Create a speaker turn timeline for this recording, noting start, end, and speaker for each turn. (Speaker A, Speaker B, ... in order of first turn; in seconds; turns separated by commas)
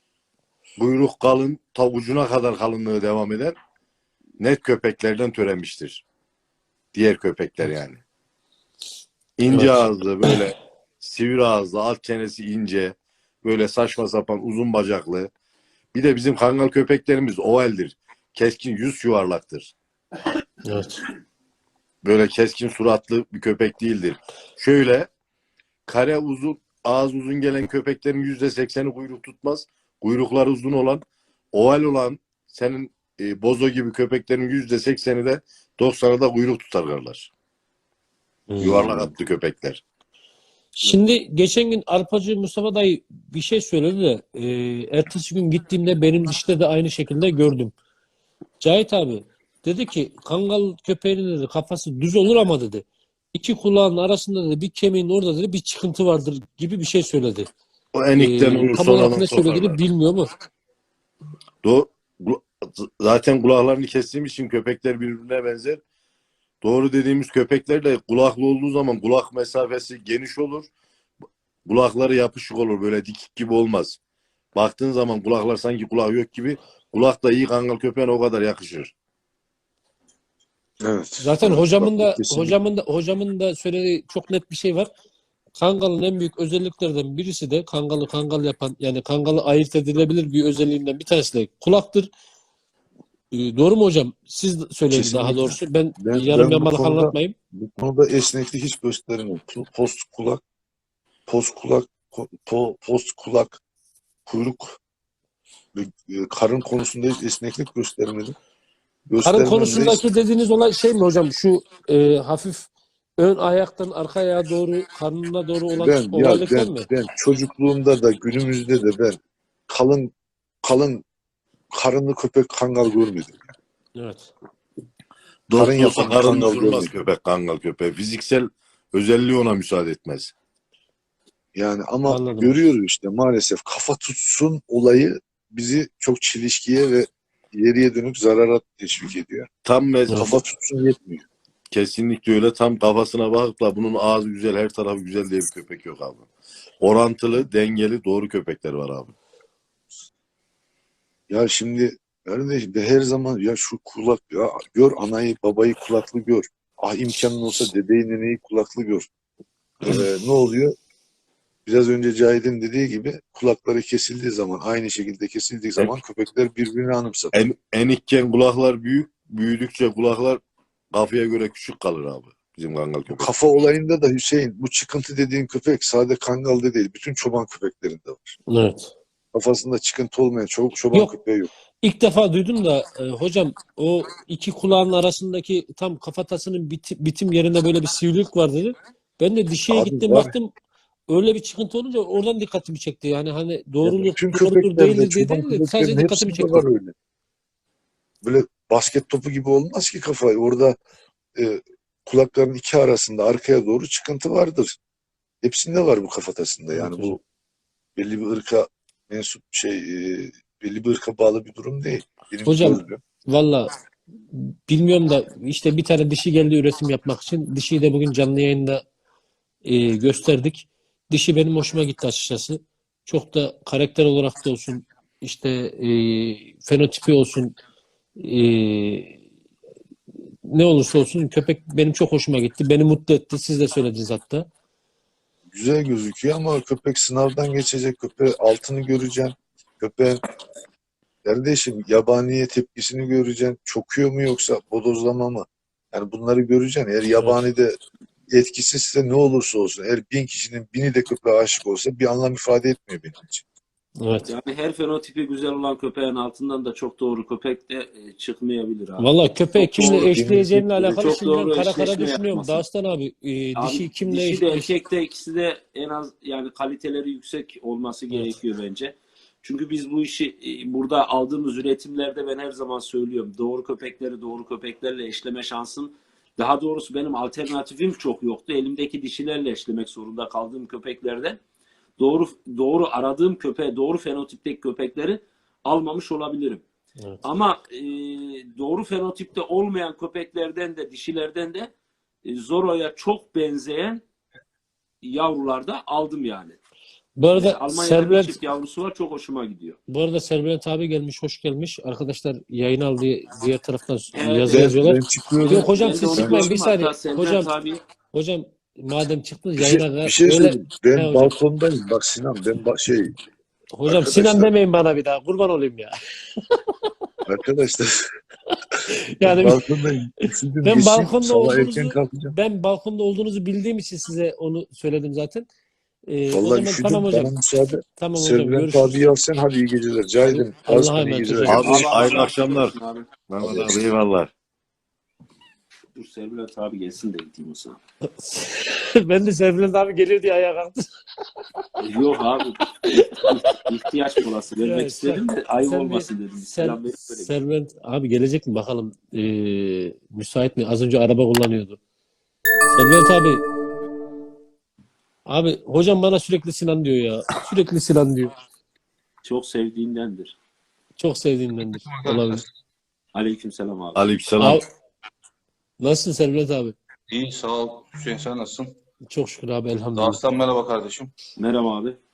Speaker A: 0.8-3.5, Speaker A: 4.4-6.0, Speaker A: 6.9-8.0, Speaker A: 9.4-15.3, Speaker B: 9.5-10.4, Speaker A: 15.9-19.7, Speaker B: 20.6-21.0, Speaker A: 22.0-25.1, Speaker A: 25.9-37.3, Speaker B: 38.5-39.1, Speaker A: 38.6-39.8, Speaker B: 40.8-47.7, Speaker B: 48.6-57.5, Speaker A: 57.9-59.8, Speaker B: 58.2-60.3, Speaker A: 61.6-65.8, Speaker A: 66.6-70.7, Speaker A: 71.7-74.0, Speaker A: 74.5-78.9, Speaker C: 80.8-82.6, Speaker B: 81.2-84.9, Speaker B: 85.6-92.1, Speaker B: 93.3-97.3, Speaker C: 94.9-100.4, Speaker C: 101.3-103.6, Speaker C: 104.3-104.8, Speaker C: 105.7-108.3, Speaker C: 109.1-110.0, Speaker B: 109.2-116.9, Speaker C: 115.8-119.2, Speaker C: 119.7-120.1, Speaker C: 120.6-121.0, Speaker C: 121.7-123.5, Speaker B: 124.0-124.3, Speaker A: 125.5-130.3, Speaker C: 125.5-126.9, Speaker C: 131.6-139.5, Speaker B: 132.1-132.6, Speaker A: 139.7-140.4, Speaker C: 140.1-141.2, Speaker A: 141.7-146.2, Speaker A: 146.8-149.1, Speaker C: 151.3-159.1, Speaker C: 159.8-160.7, Speaker C: 161.7-167.3, Speaker A: 167.3-170.4, Speaker A: 170.9-173.3, Speaker C: 173.1-178.3, Speaker B: 178.5-178.9, Speaker C: 179.3-181.5, Speaker B: 181.8-190.5, Speaker C: 189.7-190.3, Speaker B: 191.1-196.6, Speaker C: 193.8-196.9, Speaker C: 198.2-200.8, Speaker C: 201.4-204.8, Speaker C: 205.4-207.2, Speaker B: 206.7-207.2, Speaker C: 207.9-213.0, Speaker B: 212.4-213.7, Speaker B: 214.3-218.8, Speaker B: 219.6-227.6, Speaker B: 228.2-229.2, Speaker B: 230.5-234.5, Speaker C: 235.5-240.2, Speaker C: 241.2-247.8, Speaker C: 248.3-253.4, Speaker B: 254.0-254.3, Speaker D: 254.2-260.1, Speaker B: 259.0-264.7, Speaker C: 259.8-261.1, Speaker D: 261.0-262.6, Speaker D: 263.6-281.4, Speaker D: 282.0-286.6, Speaker D: 287.2-291.7, Speaker D: 292.2-294.0, Speaker D: 295.0-296.6, Speaker B: 297.2-298.4, Speaker D: 297.3-299.8, Speaker B: 299.9-307.5, Speaker D: 304.1-304.7, Speaker C: 304.5-306.5, Speaker D: 305.4-307.8, Speaker B: 308.1-311.3, Speaker C: 309.6-313.2, Speaker B: 313.7-315.9, Speaker C: 313.9-314.5, Speaker C: 317.2-318.0, Speaker B: 318.9-319.7, Speaker C: 319.2-322.3, Speaker B: 320.6-325.4, Speaker B: 326.1-327.3, Speaker C: 326.3-331.9, Speaker B: 328.0-329.1, Speaker B: 330.2-331.8, Speaker A: 331.5-332.7, Speaker D: 331.6-333.1, Speaker A: 333.3-334.3, Speaker C: 333.4-333.7, Speaker D: 335.9-337.8, Speaker B: 338.2-340.9, Speaker D: 341.8-347.3, Speaker B: 342.8-343.7, Speaker B: 344.6-351.8, Speaker B: 352.7-353.4, Speaker B: 355.2-358.3, Speaker D: 359.2-360.4, Speaker B: 361.0-362.4, Speaker E: 361.8-362.4, Speaker D: 363.1-364.1, Speaker A: 363.9-364.6, Speaker B: 364.4-364.6, Speaker B: 365.8-366.7, Speaker E: 367.1-368.7, Speaker B: 369.1-370.2, Speaker E: 369.9-371.1, Speaker D: 371.4-372.0